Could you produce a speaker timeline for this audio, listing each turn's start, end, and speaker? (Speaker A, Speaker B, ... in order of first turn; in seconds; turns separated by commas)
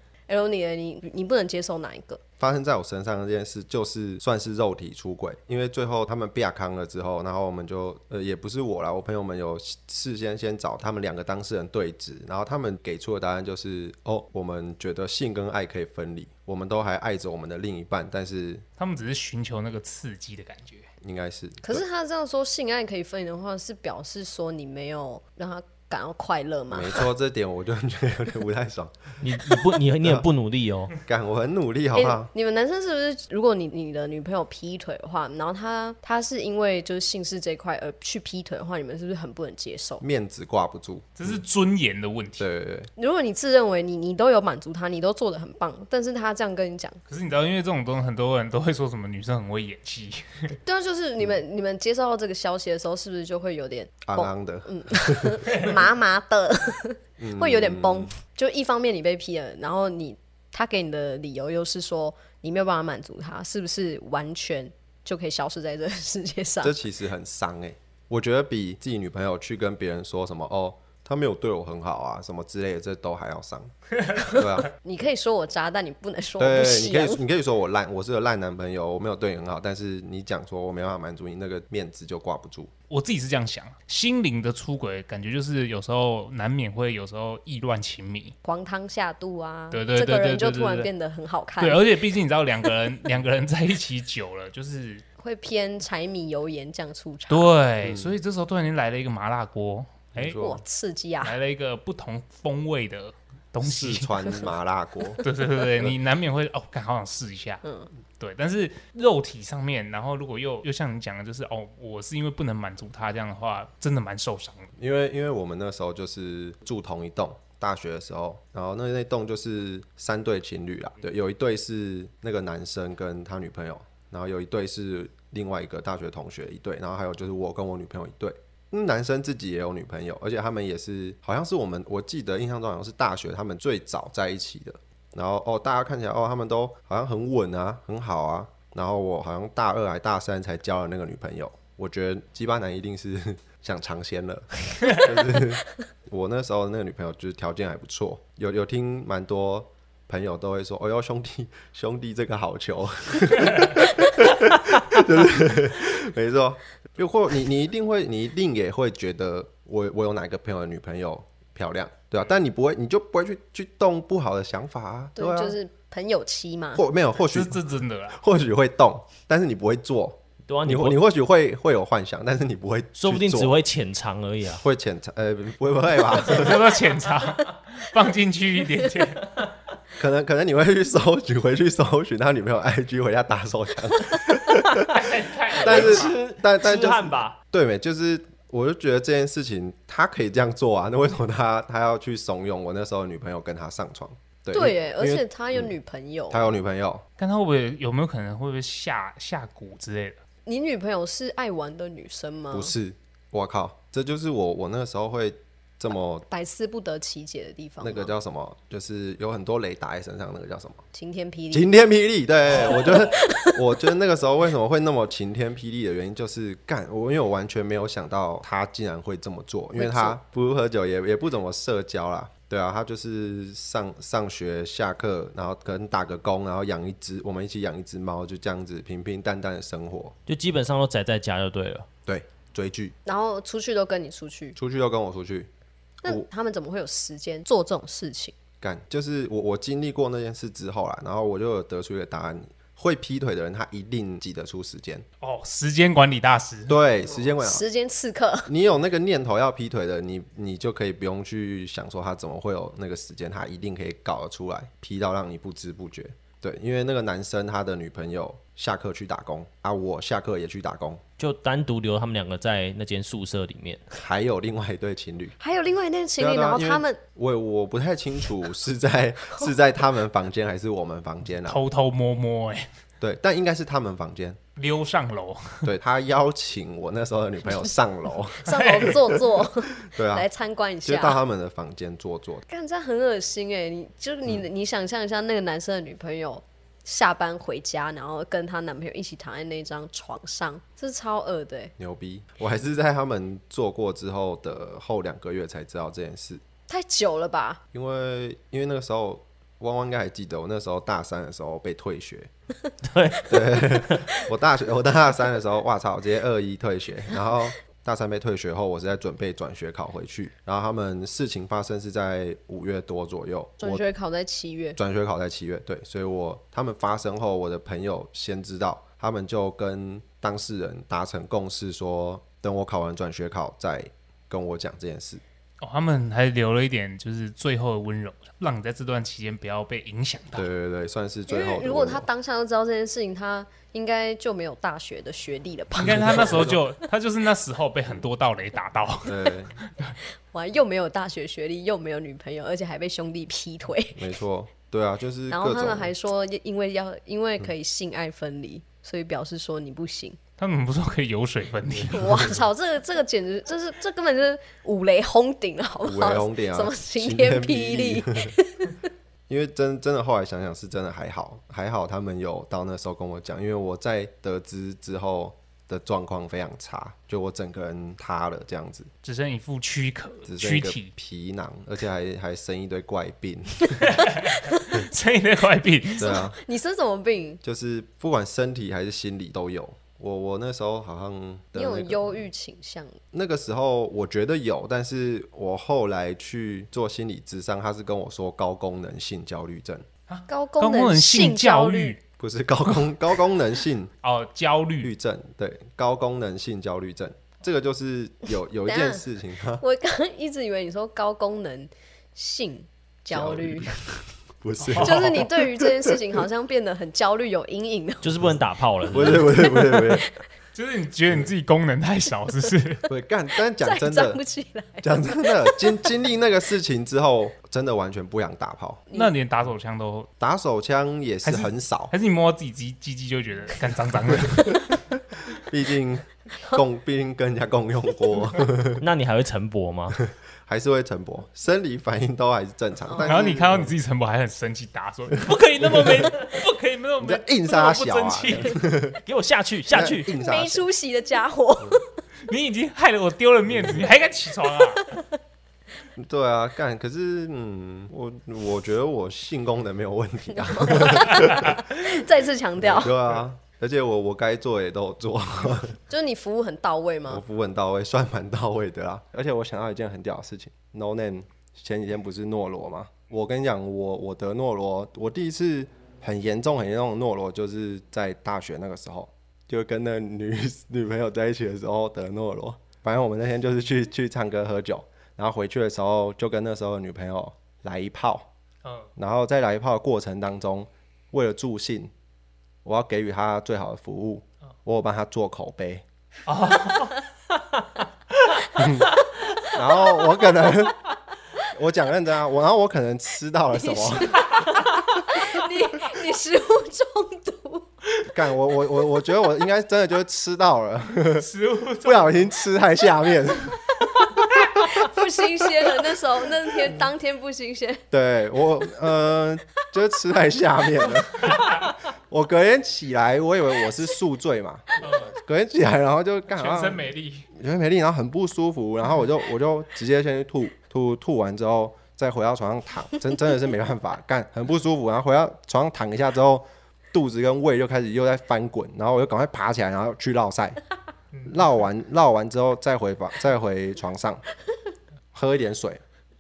Speaker A: 0.3-2.2, Speaker B: 2.4-18.6, Speaker C: 18.8-20.9, Speaker B: 21.0-21.8, Speaker A: 21.6-27.1, Speaker B: 26.7-29.5, Speaker D: 29.2-30.9, Speaker B: 31.1-32.3, Speaker A: 31.9-40.0, Speaker B: 40.0-41.4, Speaker C: 41.2-42.5, Speaker B: 42.4-42.9, Speaker A: 43.0-47.0, Speaker C: 47.1-50.5, Speaker A: 50.6-66.8, Speaker B: 54.0-55.7, Speaker B: 57.2-58.1, Speaker B: 66.6-74.7, Speaker A: 74.2-77.2, Speaker B: 76.4-82.7, Speaker C: 82.9-88.4, Speaker A: 88.4-91.9, Speaker C: 89.7-90.9, Speaker C: 91.6-95.0, Speaker A: 95.2-97.5, Speaker C: 97.3-100.4, Speaker B: 97.8-98.1, Speaker B: 100.2-100.6, Speaker A: 100.4-101.3, Speaker C: 101.2-104.2, Speaker B: 103.6-105.2, Speaker C: 105.2-107.6, Speaker A: 107.6-107.9, Speaker C: 108.2-114.7, Speaker B: 114.8-165.6, Speaker A: 165.2-166.8, Speaker B: 166.8-173.6, Speaker C: 167.3-168.2, Speaker D: 170.5-171.0, Speaker D: 173.0-174.7, Speaker B: 174.6-176.7, Speaker C: 176.2-179.4, Speaker B: 180.0-195.7, Speaker C: 184.9-186.1, Speaker D: 185.6-187.4, Speaker A: 194.5-196.4, Speaker B: 196.3-197.0, Speaker C: 197.2-200.2, Speaker A: 200.5-202.7, Speaker B: 202.5-206.2, Speaker A: 206.3-208.1, Speaker B: 207.8-210.8, Speaker A: 210.9-211.7, Speaker B: 211.5-230.2, Speaker A: 212.5-213.8, Speaker A: 219.8-220.2, Speaker D: 230.3-231.9, Speaker B: 232.1-232.9, Speaker A: 233.1-234.6, Speaker B: 234.6-235.5, Speaker A: 236.0-238.3, Speaker B: 238.6-245.1, Speaker C: 245.2-246.8, Speaker B: 246.7-247.6, Speaker A: 247.4-248.5, Speaker B: 248.5-261.0, Speaker D: 261.2-263.8, Speaker B: 263.9-265.4, Speaker A: 265.4-267.0, Speaker B: 266.2-271.6, Speaker C: 271.4-272.7, Speaker B: 273.0-274.4, Speaker C: 274.6-275.7, Speaker B: 275.6-280.3, Speaker A: 278.4-281.2, Speaker C: 278.5-279.0, Speaker B: 280.9-282.4, Speaker A: 282.5-291.7, Speaker B: 291.8-296.4, Speaker A: 296.7-297.6, Speaker B: 297.7-302.3, Speaker D: 302.8-304.1, Speaker B: 303.3-313.8, Speaker A: 313.6-314.8, Speaker B: 314.8-325.2, Speaker C: 325.6-330.5, Speaker B: 330.3-332.1, Speaker A: 331.3-336.6, Speaker C: 335.8-340.0, Speaker B: 335.8-336.6, Speaker B: 339.1-339.6, Speaker A: 340.3-344.1, Speaker B: 343.9-345.9, Speaker A: 345.3-350.2, Speaker C: 350.4-352.3, Speaker A: 351.9-358.9, Speaker B: 355.8-358.4, Speaker B: 359.3-368.9, Speaker C: 369.0-370.9, Speaker B: 370.3-373.9, Speaker C: 373.8-376.1, Speaker A: 374.3-374.7, Speaker A: 376.0-377.4, Speaker B: 376.0-376.4, Speaker B: 377.4-382.0, Speaker A: 381.6-383.0, Speaker B: 383.1-389.9, Speaker C: 390.1-392.0, Speaker A: 390.3-392.0, Speaker B: 392.2-393.9, Speaker C: 394.0-394.9, Speaker B: 394.8-399.6, Speaker A: 398.7-399.0, Speaker A: 399.6-404.0, Speaker B: 403.1-403.8, Speaker B: 404.4-406.0, Speaker C: 404.6-405.3, Speaker A: 404.8-408.2, Speaker D: 408.0-409.3, Speaker B: 408.9-410.1, Speaker A: 409.0-410.1, Speaker C: 410.6-412.9, Speaker B: 412.9-414.2, Speaker A: 413.6-415.9, Speaker B: 414.8-418.8, Speaker C: 418.9-420.1, Speaker B: 420.2-421.9, Speaker C: 421.2-424.8, Speaker B: 424.2-424.6, Speaker B: 425.4-428.8, Speaker D: 428.8-430.0, Speaker B: 430.1-433.7, Speaker A: 432.9-433.3, Speaker C: 433.0-438.6, Speaker B: 435.6-436.1, Speaker B: 437.0-439.0, Speaker D: 439.1-440.1, Speaker B: 439.7-440.7, Speaker A: 440.1-441.9, Speaker C: 442.3-444.9, Speaker B: 443.5-443.9, Speaker A: 444.8-445.0, Speaker B: 446.0-451.6, Speaker A: 450.3-452.9, Speaker C: 451.1-451.5, Speaker B: 452.6-455.8, Speaker A: 455.9-457.2, Speaker B: 457.1-478.3, Speaker C: 478.6-478.9, Speaker B: 479.0-481.9, Speaker B: 482.6-485.8, Speaker C: 486.3-487.0, Speaker B: 488.6-490.8, Speaker A: 489.3-490.6, Speaker B: 491.5-494.2, Speaker A: 493.6-497.7, Speaker C: 494.2-494.6, Speaker B: 498.1-501.3, Speaker C: 501.2-502.3, Speaker B: 501.8-503.7, Speaker A: 504.6-507.8, Speaker B: 507.9-530.6, Speaker C: 511.3-511.6, Speaker C: 514.8-515.2, Speaker C: 516.3-517.3, Speaker B: 531.3-534.2, Speaker B: 535.1-535.8